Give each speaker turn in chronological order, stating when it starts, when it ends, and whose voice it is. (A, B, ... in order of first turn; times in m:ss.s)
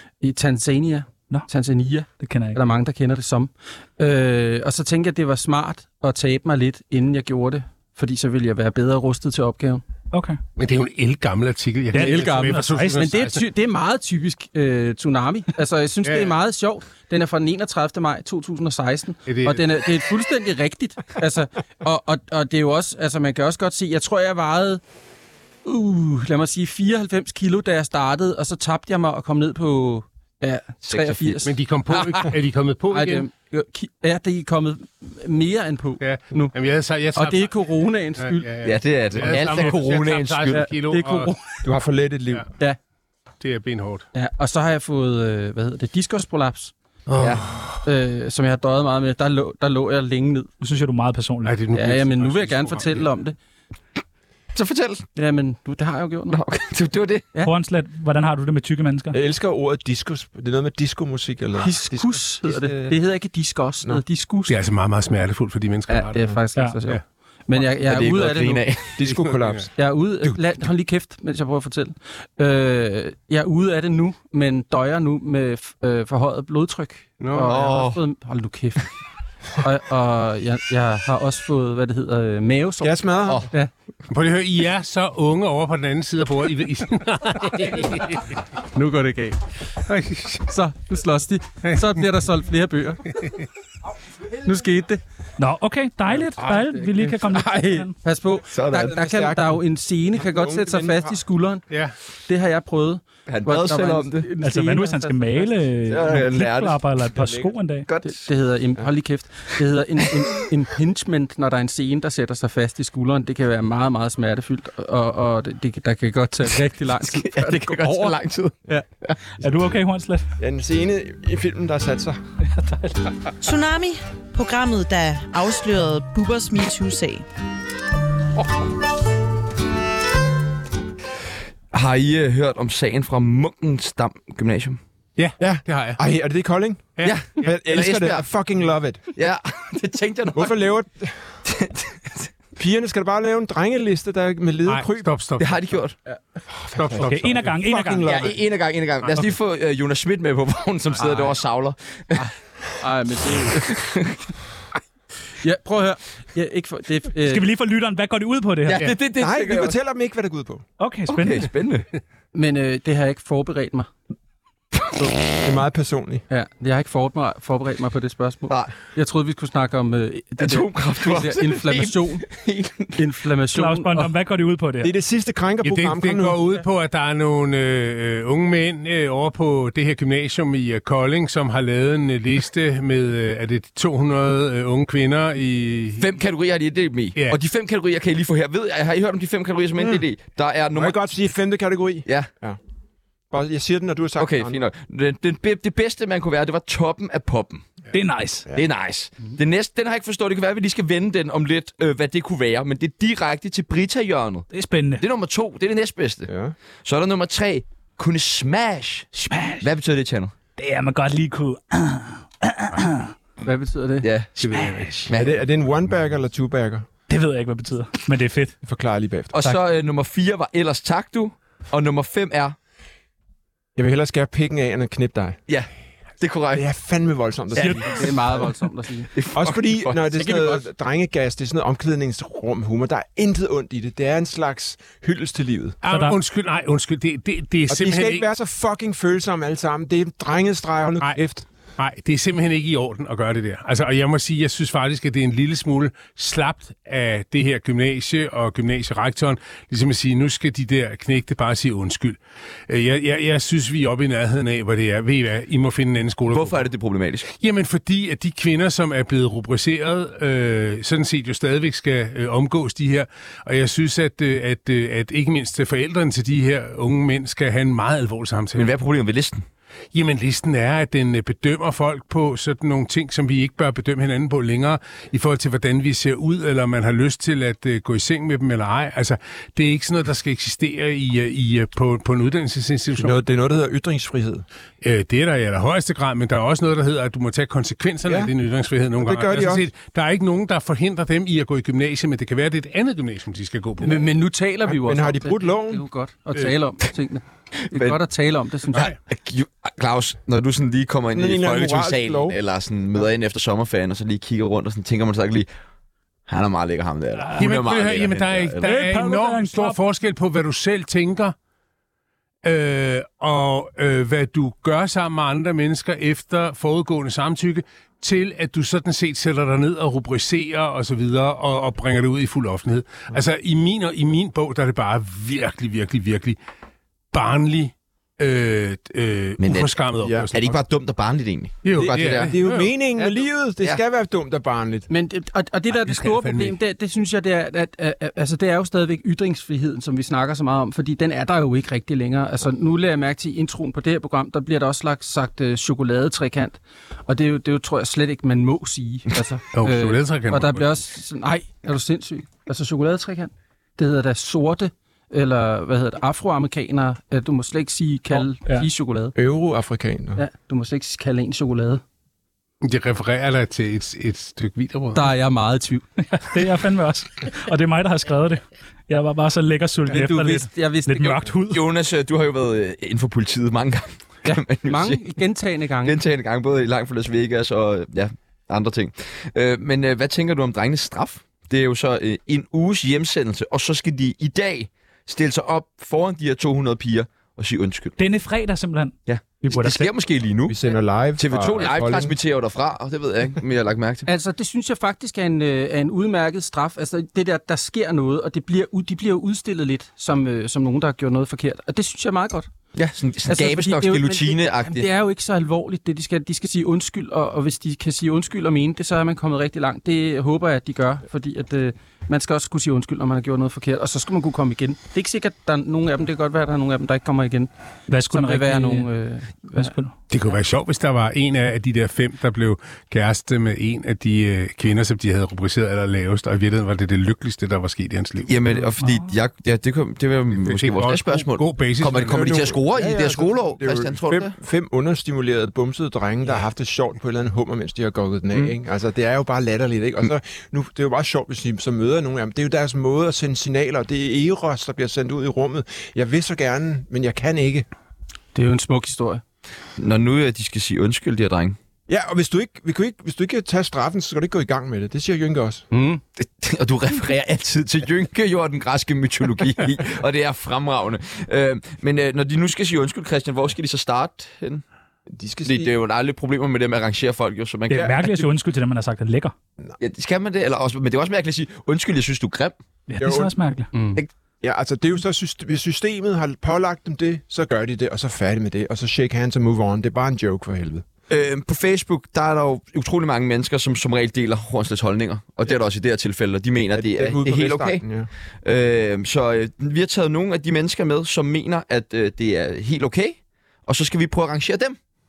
0:00.2-0:09.8 A
0:02.2-0:02.6 B
0:10.1-0:10.4 B
0:10.6-0:13.4 C
0:11.9-0:13.1 B
0:12.0-0:24.8 A
0:16.0-0:16.4 C
0:19.3-0:19.6 C
0:25.6-0:32.4 A
0:30.9-0:31.4 D
0:31.4-0:33.3 C
0:32.9-0:36.6 A
0:36.0-0:37.5 C
0:37.1-0:38.5 A
0:38.2-0:41.3 C
0:38.6-0:40.6 D
0:40.5-0:41.6 A
0:41.6-0:42.5 E
0:43.4-0:44.0 C
0:44.1-0:46.7 A
0:47.1-0:47.8 C
0:47.2-0:47.5 D
0:47.8-0:50.5 A
0:50.6-0:51.5 B
0:51.4-0:53.1 C
0:51.7-0:53.4 A
0:54.5-0:55.1 D
0:55.2-0:56.4 A
0:56.3-0:57.2 D
0:57.4-0:59.2 B
0:59.1-1:03.0 E
1:01.6-1:04.6 A
1:04.5-1:06.2 C
1:05.9-1:08.6 A
1:07.8-1:09.0 D
1:09.0-1:09.7 E
1:09.0-1:09.6 C
1:09.8-1:18.9 A
1:17.2-1:17.5 C
1:17.4-1:18.0 D
1:19.6-1:23.0 A
1:22.8-1:23.5 E
1:24.1-1:28.3 C
1:28.7-1:29.4 A
1:29.9-1:30.5 C
1:30.5-1:33.2 A
1:33.2-1:33.4 C
1:34.4-1:35.0 A
1:35.4-1:37.9 B
1:36.4-1:41.7 A
1:38.5-1:38.9 D
1:38.8-1:39.6 E
1:40.1-1:41.2 E
1:41.7-1:42.0 C
1:42.3-1:45.5 A
1:43.3-1:44.3 D
1:44.4-1:47.9 B
1:45.9-1:46.8 D
1:47.9-1:48.2 D
1:48.0-1:58.8 A
1:57.0-1:59.2 D
1:59.4-2:00.3 B
2:00.4-2:02.2 E
2:02.4-2:03.1 B
2:03.4-2:07.2 F
2:11.7-2:14.8 D
2:15.2-2:16.0 C
2:15.4-2:19.0 E
2:17.0-2:17.5 C
2:17.0-2:18.2 D
2:19.1-2:20.7 D
2:20.3-2:21.2 E
2:21.4-2:22.3 D
2:22.6-2:25.1 E
2:24.7-2:25.6 C
2:25.4-2:26.0 D
2:26.5-2:28.4 E
2:26.8-2:27.6 C
2:27.0-2:28.1 B
2:28.0-2:32.3 D
2:31.0-2:31.4 A
2:32.1-2:33.8 A
2:33.4-2:34.2 D
2:35.4-2:37.4 A
2:37.2-2:38.9 B
2:38.7-2:39.8 D
2:39.1-2:40.6 E
2:40.8-2:41.5 B
2:41.1-2:41.9 D
2:42.3-2:43.9 A
2:45.4-2:46.2 E
2:46.3-2:52.2 A
2:50.4-2:53.0 D
2:53.0-2:54.1 A
2:53.5-2:54.9 B
2:54.8-2:56.4 E
2:55.6-3:06.0 C
3:06.0-3:11.0 D
3:10.7-3:12.6 E
3:13.3-3:14.6 E
3:14.2-3:17.7 D
3:17.9-3:18.5 B
3:18.6-3:24.5 D
3:24.5-3:25.0 B
3:25.0-3:26.3 D
3:26.3-3:26.6 E
3:26.8-3:30.3 D
3:29.1-3:29.7 B
3:30.6-3:33.1 B
3:33.4-3:34.5 A
3:34.0-3:34.5 D
3:34.5-3:35.1 B
3:35.1-3:35.4 D
3:35.1-3:36.9 E
3:37.1-3:38.6 B
3:38.6-3:39.4 E
3:39.3-3:42.6 D
3:43.8-3:45.4 E
3:46.2-3:46.6 D
3:46.5-3:48.5 E
3:47.6-3:48.1 D
3:47.6-3:47.9 B
3:47.9-3:49.1 A
3:49.1-3:50.0 D
3:49.3-3:55.8 E
3:50.1-3:50.6 A
3:55.8-3:58.2 C
3:55.9-3:56.2 B
3:57.7-4:01.5 E
4:01.8-4:16.6 C
4:16.3-4:17.3 D
4:17.3-4:28.7 C
4:28.6-4:29.5 D
4:29.9-4:43.2 C
4:42.9-4:44.4 E
4:44.8-4:54.1 C
4:48.1-4:48.3 E
4:49.0-4:49.7 E
4:53.8-4:58.9 A
4:54.6-4:55.8 E
4:57.7-4:58.0 D
4:58.8-5:05.5 D
5:01.1-5:02.4 E
5:06.3-5:08.7 D
5:07.2-5:07.6 B
5:07.4-5:11.4 C
5:08.6-5:09.8 B
5:12.4-5:26.4 C
5:27.1-5:30.5 C
5:29.4-5:29.8 D
5:30.0-5:30.5 E
5:30.3-5:32.3 D
5:31.6-5:32.7 C
5:31.8-5:34.9 E
5:34.9-5:59.1 A
5:35.8-5:36.6 C
5:49.5-5:50.7 C
5:58.1-5:58.7 B
5:59.2-6:00.2 E
6:00.2-6:01.8 A
6:02.6-6:05.1 C
6:05.0-6:05.8 A
6:06.0-6:11.6 B
6:09.9-6:11.3 A
6:11.5-6:15.0 D
6:14.2-6:16.0 A
6:15.8-6:28.0 D
6:28.0-6:29.9 B
6:29.1-6:30.6 D
6:30.5-6:32.2 E
6:31.2-6:34.1 D
6:34.1-6:42.5 A
6:42.8-6:44.9 D
6:43.3-6:57.5 A
6:57.9-6:58.9 B
6:58.1-6:59.7 A
6:59.5-7:00.0 B
7:00.1-7:08.4 C
7:08.3-7:14.3 D
7:08.8-7:09.1 B
7:10.4-7:12.5 C
7:11.9-7:27.7 E
7:28.3-7:29.2 A
7:29.8-7:31.6 D
7:31.9-7:35.6 E
7:35.7-7:36.0 A
7:36.2-7:44.6 D
7:45.1-7:45.7 E
7:45.4-7:48.0 D
7:47.7-7:48.2 E
7:47.8-7:49.3 B
7:49.8-7:52.6 D
7:52.9-7:53.7 B
7:53.0-7:53.4 E
7:53.7-7:54.0 A
7:54.4-8:00.8 E
8:01.1-8:07.8 D
8:06.7-8:08.1 E
8:08.4-8:14.8 D